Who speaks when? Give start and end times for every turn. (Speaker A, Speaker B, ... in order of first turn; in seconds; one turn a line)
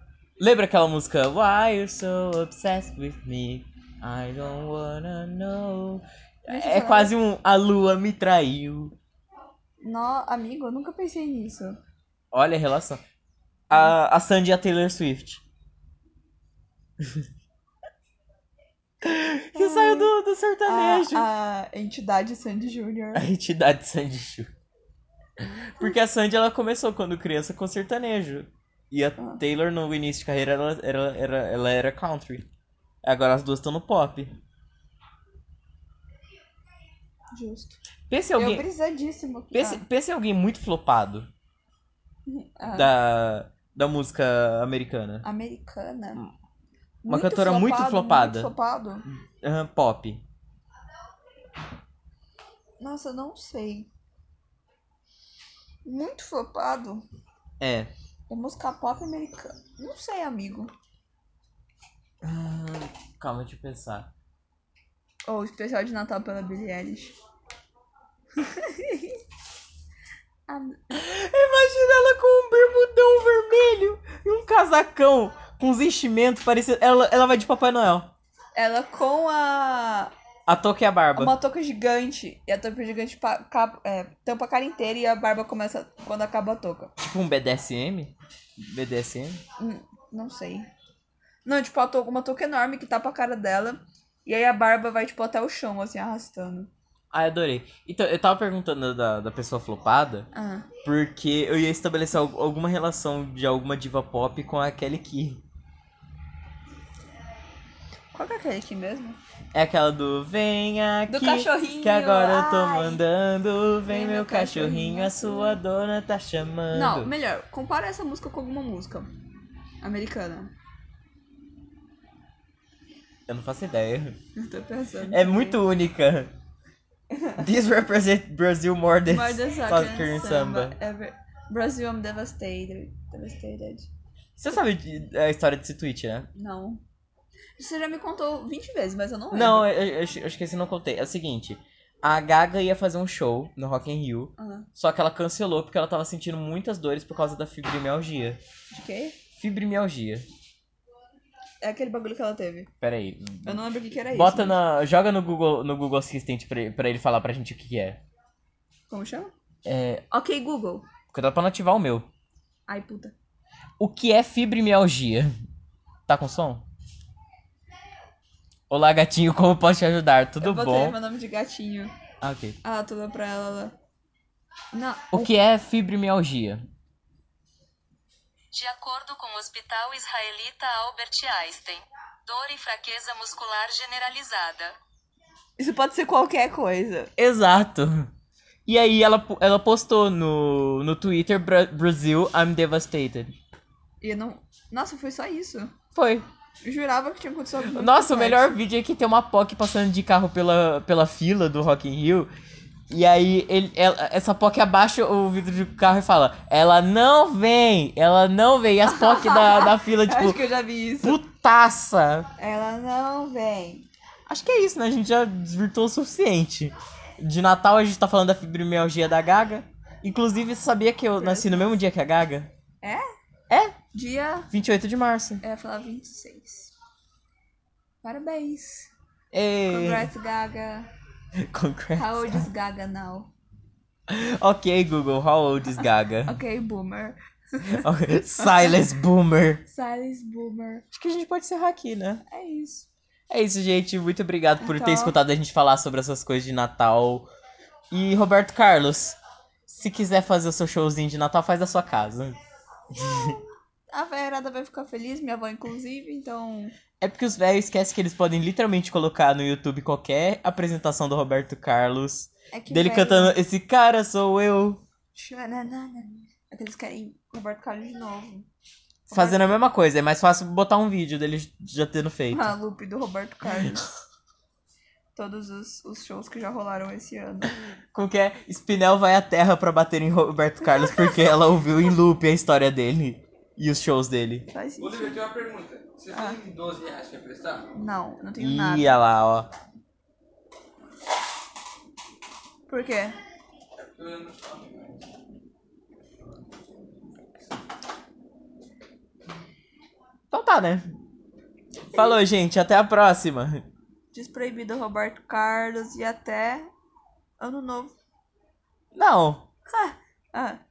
Speaker A: 0.4-8.9
Speaker B: 6.5-7.1
Speaker B: 9.8-11.8
Speaker A: 12.3-13.0
Speaker A: 13.7-15.4
Speaker A: 17.0-17.3
Speaker A: 19.0-21.3
Speaker B: 19.5-20.1
Speaker B: 20.7-23.2
Speaker A: 23.1-24.5
Speaker A: 25.4-32.5
Speaker A: 33.0-34.4
Speaker B: 37.3-37.8
Speaker A: 38.1-38.6
Speaker B: 38.4-39.8
Speaker A: 39.5-41.3
Speaker B: 42.3-42.9
Speaker A: 42.7-45.2
Speaker B: 45.2-46.2
Speaker B: 47.0-49.0
Speaker A: 47.1-48.5
Speaker A: 49.4-50.2
Speaker B: 52.8-53.9
Speaker B: 55.9-57.1
Speaker A: 57.6-57.9
Speaker B: 58.3-60.7
Speaker A: 62.2-64.1
Speaker B: 65.2-67.2
Speaker B: 68.3-69.2
Speaker B: 70.5-70.9
Speaker A: 70.9-78.1
Speaker B: 78.5-80.1
Speaker A: 80.5-81.3
Speaker B: 81.2-86.9
Speaker A: 87.0-89.4
Speaker B: 89.6-90.7
Speaker B: 91.5-96.7
Speaker A: 97.1-100.3
Speaker B: 100.3-100.7
Speaker A: 100.8-105.4
Speaker B: 108.1-109.2
Speaker A: 109.5-117.1
Speaker B: 111.1-113.0
Speaker B: 113.9-115.6
Speaker B: 116.7-119.1
Speaker B: 119.8-120.5
Speaker A: 123.3-124.2
Speaker B: 124.4-125.6
Speaker A: 125.1-126.3
Speaker B: 127.1-127.5
Speaker A: 127.4-130.8
Speaker B: 129.1-133.9
Speaker A: 134.4-136.3
Speaker B: 136.3-136.8
Speaker B: 137.6-139.7
Speaker A: 139.3-148.4
Speaker B: 144.4-144.7
Speaker B: 148.7-149.2
Speaker A: 149.3-150.3
Speaker B: 151.6-152.7
Speaker A: 152.8-158.0
Speaker B: 153.4-154.6
Speaker B: 158.9-159.3
Speaker A: 159.7-160.0
Speaker B: 160.1-160.9
Speaker A: 161.1-162.1
Speaker B: 162.7-163.2
Speaker A: 163.8-165.4
Speaker A: 166.1-166.6
Speaker A: 168.7-171.0
Speaker B: 170.4-171.9
Speaker A: 172.2-172.6
Speaker B: 172.6-173.8
Speaker B: 174.7-175.3
Speaker A: 175.1-176.7
Speaker C: 178.5-184.8
Speaker B: 185.6-187.1
Speaker A: 187.2-188.1
Speaker A: 188.7-193.4
Speaker B: 194.0-195.7
Speaker A: 195.9-196.3
Speaker B: 196.6-198.6
Speaker A: 197.7-202.3
Speaker A: 202.9-210.4
Speaker B: 208.9-211.2
Speaker A: 211.0-212.3
Speaker B: 212.4-213.9
Speaker A: 214.3-222.5
Speaker B: 221.2-221.8
Speaker A: 223.5-223.8
Speaker B: 223.9-224.5
Speaker A: 224.5-225.4
Speaker B: 225.4-226.7
Speaker B: 228.0-228.9
Speaker A: 229.3-230.1
Speaker B: 229.7-230.9
Speaker A: 231.4-232.5
Speaker B: 232.0-233.3
Speaker A: 234.1-236.4
Speaker B: 236.3-237.9
Speaker A: 237.7-239.6
Speaker B: 238.4-238.8
Speaker B: 239.7-240.9
Speaker A: 240.9-242.2
Speaker B: 242.3-242.9
Speaker A: 243.3-247.3
Speaker B: 244.6-245.2
Speaker A: 247.9-252.4
Speaker B: 252.9-256.8
Speaker A: 252.9-253.4
Speaker A: 257.0-264.8
Speaker B: 262.5-263.4
Speaker B: 265.1-268.5
Speaker B: 269.1-269.6
Speaker A: 269.1-272.5
Speaker B: 272.3-273.9
Speaker B: 275.1-277.6
Speaker A: 277.9-284.5
Speaker B: 280.6-281.3
Speaker B: 284.5-285.2
Speaker D: 284.8-287.7
Speaker B: 286.1-286.4
Speaker B: 287.7-288.9
Speaker A: 288.4-289.5
Speaker B: 292.7-293.2
Speaker D: 293.8-295.0
Speaker A: 300.3-300.9
Speaker A: 301.9-303.7
Speaker B: 301.9-302.2
Speaker B: 304.1-306.7
Speaker B: 307.4-307.9
Speaker A: 308.9-309.5
Speaker B: 309.7-310.6